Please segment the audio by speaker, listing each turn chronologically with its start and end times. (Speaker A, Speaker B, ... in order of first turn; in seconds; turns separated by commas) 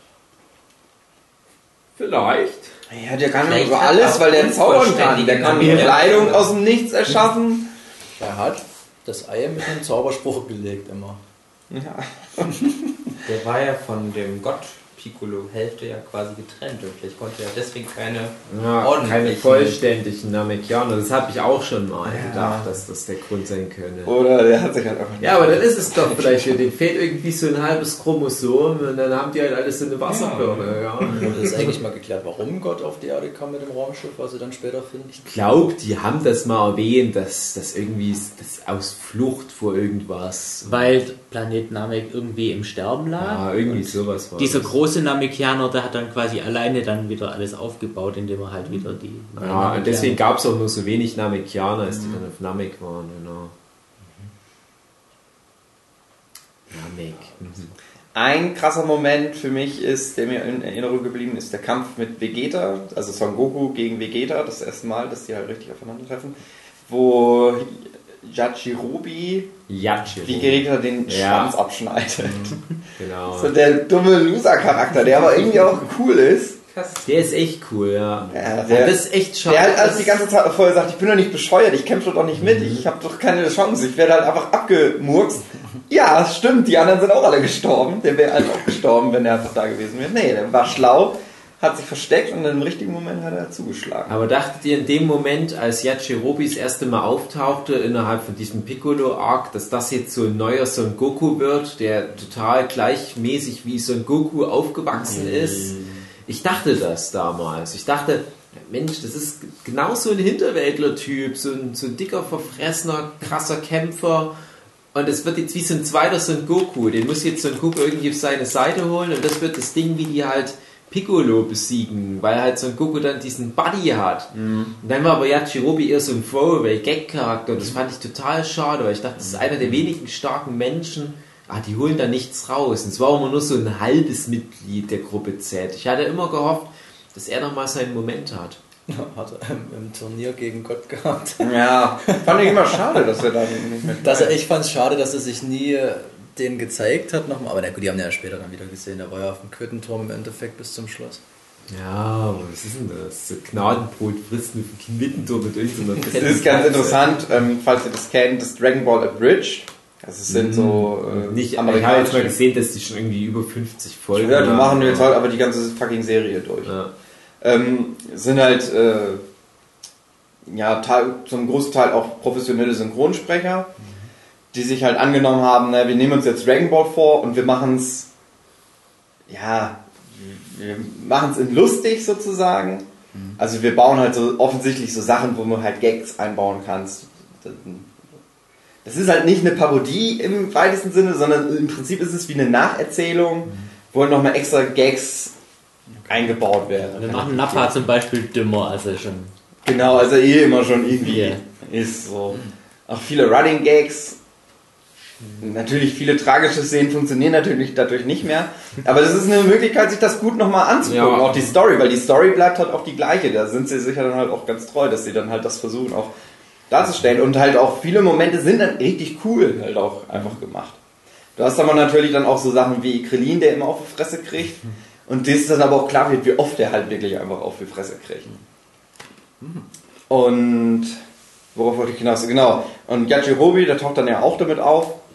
Speaker A: 2.0-2.7, Speaker B: 2.9-7.7, Speaker C: 3.4-6.5, Speaker D: 8.2-11.2, Speaker B: 11.7-12.6, Speaker C: 13.2-19.8, Speaker A: 18.5-24.1, Speaker B: 22.0-22.8, Speaker B: 24.0-26.6, Speaker A: 25.2-31.7, Speaker D: 31.0-35.3, Speaker A: 35.2-40.9, Speaker E: 40.6-50.2, Speaker A: 43.2-44.8, Speaker A: 49.4-53.5, Speaker B: 51.9-52.2, Speaker A: 56.7-57.7, Speaker B: 58.1-66.3, Speaker B: 66.9-69.5, Speaker A: 69.7-71.5, Speaker B: 70.2-72.6, Speaker A: 73.0-73.5, Speaker B: 73.3-76.6, Speaker C: 76.7-77.1, Speaker A: 77.0-80.2, Speaker B: 78.3-94.1, Speaker A: 82.4-82.8, Speaker A: 94.1-114.3, Speaker B: 105.4-105.8, Speaker A: 114.9-138.6, Speaker B: 124.3-124.7, Speaker D: 138.9-143.2, Speaker B: 141.4-144.4, Speaker D: 143.9-151.2, Speaker A: 151.7-157.1, Speaker B: 156.0-162.3, Speaker A: 160.3-165.1, Speaker B: 164.1-166.7, Speaker A: 166.6-166.9, Speaker B: 167.4-169.2, Speaker B: 170.4-173.7, Speaker D: 173.8-174.1, Speaker B: 174.5-178.1, Speaker B: 179.3-182.8, Speaker D: 183.1-183.4, Speaker B: 183.4-187.9, Speaker B: 188.8-195.3, Speaker B: 196.1-197.8, Speaker E: 196.9-199.3, Speaker B: 199.6-204.2, Speaker E: 201.0-201.4, Speaker B: 205.4-216.1, Speaker A: 210.8-211.5, Speaker B: 216.7-220.8, Speaker B: 221.3-228.3, Speaker D: 229.4-229.7, Speaker B: 230.1-231.0, Speaker B: 231.5-235.0